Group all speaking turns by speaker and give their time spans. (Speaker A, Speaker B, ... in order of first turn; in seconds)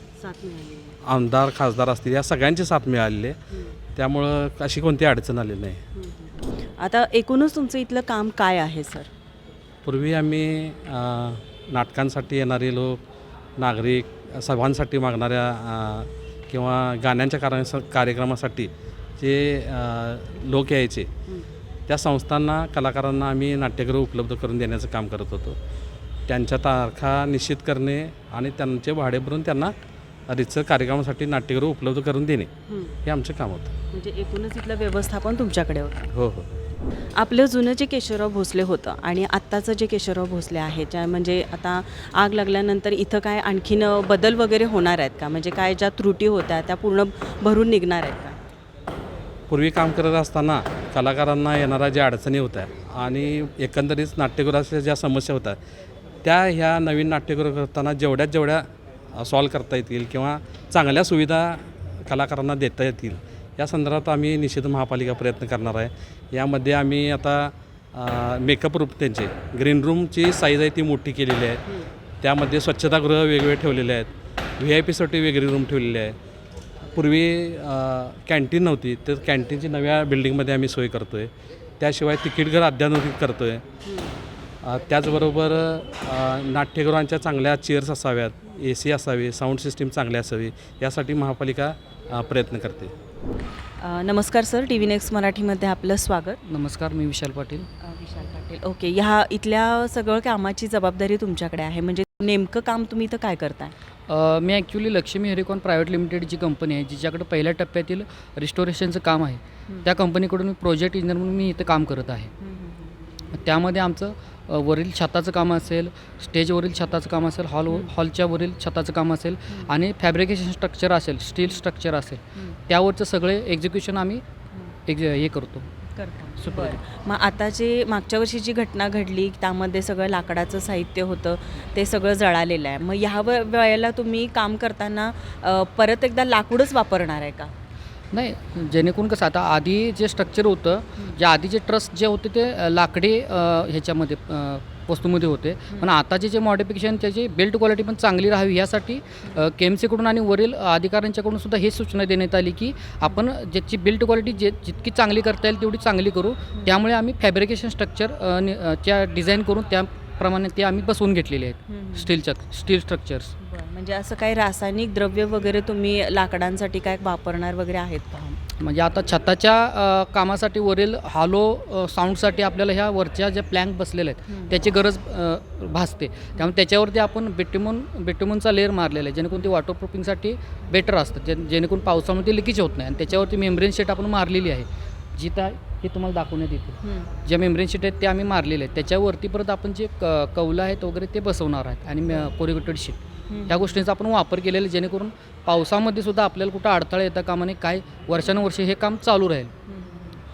Speaker A: 0.2-0.9, 6.0-9.1, 32.7-32.9, 33.9-36.1, 37.1-48.4, 83.8-84.1, 93.8-96.4, 97.8-103.7, 112.4-113.0, 125.9-137.5, 161.7-162.1, 163.4-168.2, 186.8-187.1, 193.3-193.8, 199.7-200.2
Speaker B: 1.0-3.4, 3.9-5.8, 9.8-13.0, 13.6-21.1, 21.9-25.6, 26.3-29.7, 30.3-32.5, 33.0-33.7, 36.1-36.5, 49.5-55.6, 56.2-71.6, 72.2-74.1, 74.6-76.2, 76.9-83.6, 84.6-92.9
Speaker C: 96.5-97.7, 104.1-112.3, 113.3-124.2, 124.9-125.7, 126.4-126.8, 138.1-163.3, 168.2-199.5